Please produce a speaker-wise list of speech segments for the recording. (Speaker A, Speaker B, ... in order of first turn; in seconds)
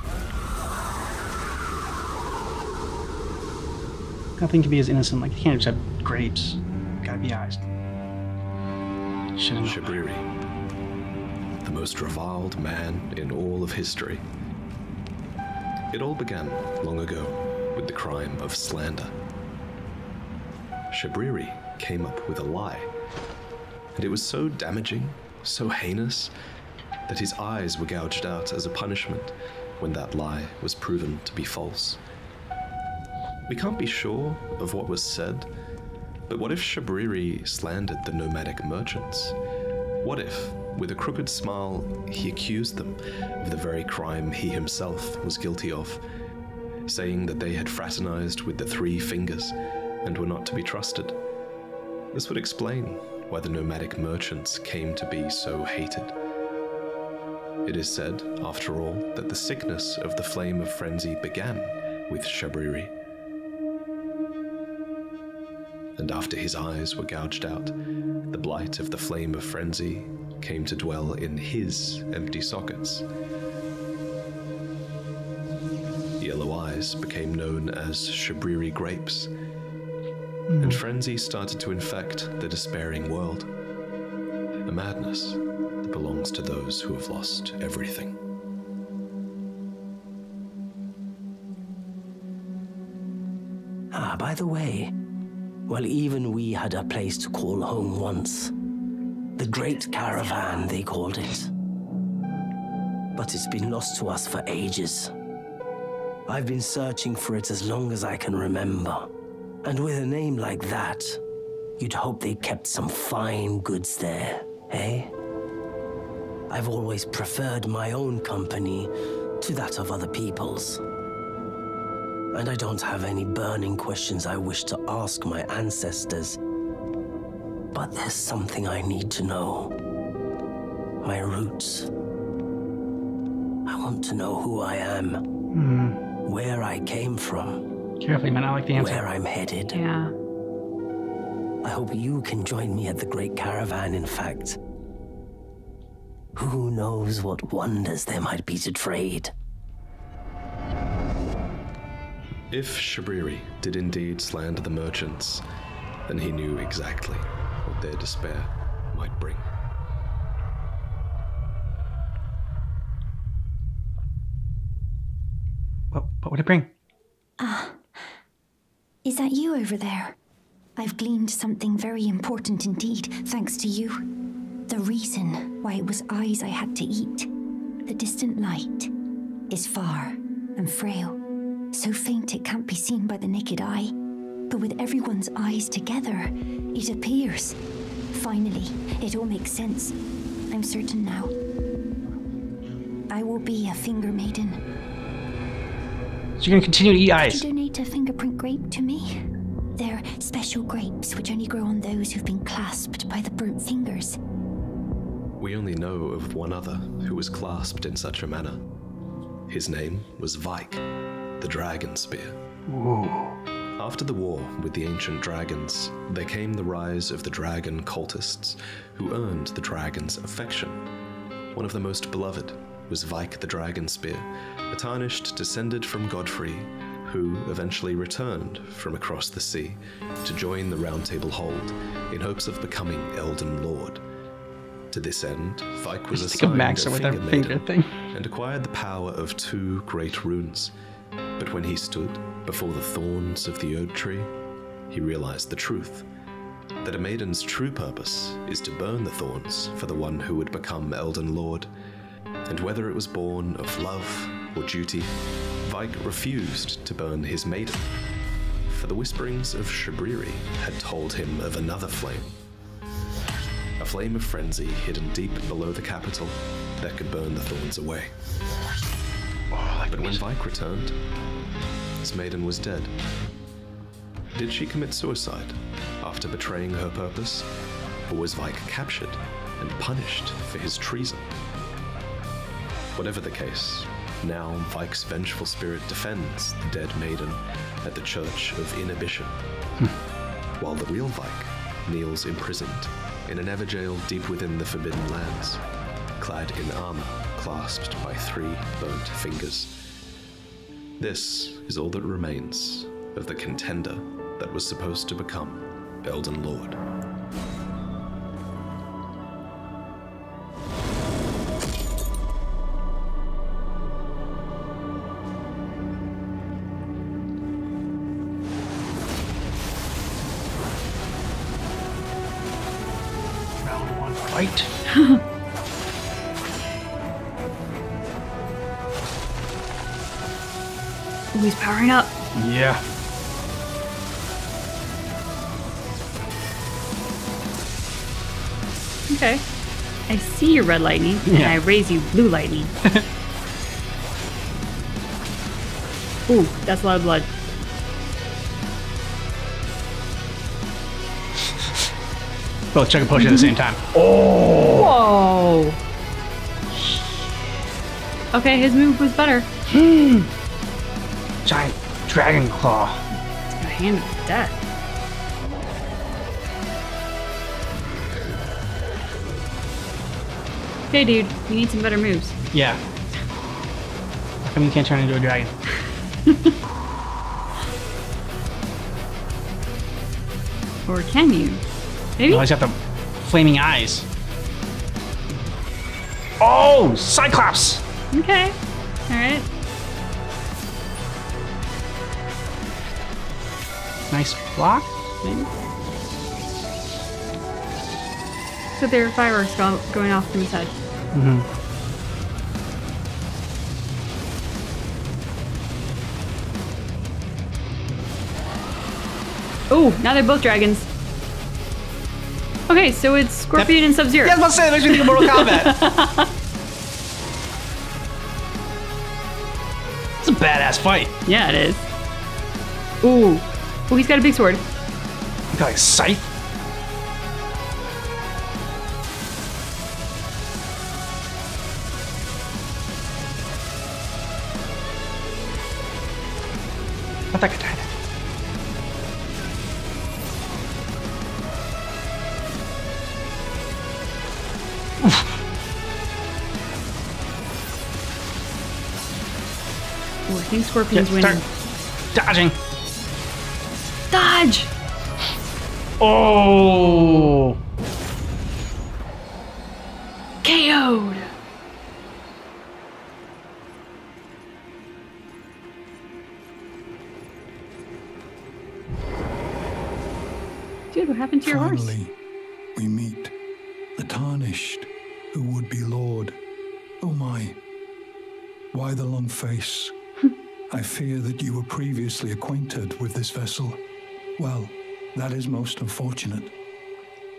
Speaker A: 4.4-7.6, 9.4-10.0, 80.5-80.8, 135.5-136.0, 138.0-139.0, 165.9-166.7, 196.4-197.4, 212.7-213.4, 236.1-237.9, 269.5-270.2, 323.6-324.7, 332.4-332.8, 341.2-341.5, 352.7-354.9, 359.7-360.3, 361.4-363.0, 372.5-372.8, 374.4-375.5, 382.3-384.1, 386.4-387.8, 394.1-395.5, 401.1-401.5, 413.6-415.8, 420.2-421.1, 425.5-426.3, 437.3-437.9, 445.0-445.3, 450.9-451.4, 452.1-452.6, 456.0-457.6
Speaker B: 9.6-10.3, 11.6-14.2, 15.9-19.1, 20.9-22.9, 24.0-26.3, 27.1-32.0, 33.5-35.5, 36.3-39.4, 40.0-46.0, 46.9-51.2, 52.1-56.1, 57.6-62.9, 66.0-67.8, 68.3-73.1, 76.2-79.3, 80.6-83.5, 84.7-88.2, 152.5-155.4, 156.1-159.5, 205.4-208.6, 209.5-210.8, 211.4-212.4, 213.8-220.8, 221.5-234.0, 234.9-240.7, 241.4-244.3, 244.9-246.0, 246.8-251.7, 252.5-255.1, 255.6-257.8, 258.7-262.4, 263.8-268.1, 269.9-271.0, 272.0-272.9, 274.3-277.5, 278.1-281.3, 282.9-289.4, 290.6-295.6, 296.2-299.8, 301.0-306.8
Speaker C: 93.9-94.9, 95.7-98.5, 99.4-101.5, 103.2-105.1, 106.3-109.1, 109.6-111.2, 111.8-115.1, 116.5-120.8, 122.3-126.4, 127.7-129.8, 131.0-131.9, 133.7-135.2, 136.2-137.6, 138.7-139.8, 141.6-144.6, 146.3-149.3
Speaker D: 139.7-140.1, 324.9-325.2, 331.3-332.1, 339.1-339.4, 340.1-342.7, 346.3-347.3, 353.2-353.5, 354.8-355.8, 358.3-359.5, 363.5-364.6, 370.9-372.4, 376.2-376.5, 380.9-381.6, 382.2-382.4, 388.1-388.6, 389.1-389.5, 398.8-400.8, 409.7-410.9, 412.7-416.3, 421.3-421.8, 423.0-424.6, 450.3-451.4, 454.1-454.7, 460.4-461.3, 470.9-471.9
Speaker E: 167.4-167.8, 169.0-170.2, 170.8-174.0, 174.7-177.3, 177.9-178.9, 179.5-181.2, 181.7-183.9, 184.5-187.6, 188.1-190.0, 190.5-191.3, 193.1-194.6, 197.2-204.2
Speaker F: 471.4-472.1, 472.8-473.3, 473.9-476.4, 477.0-477.6, 478.7-479.9, 480.7-483.8, 484.4-486.5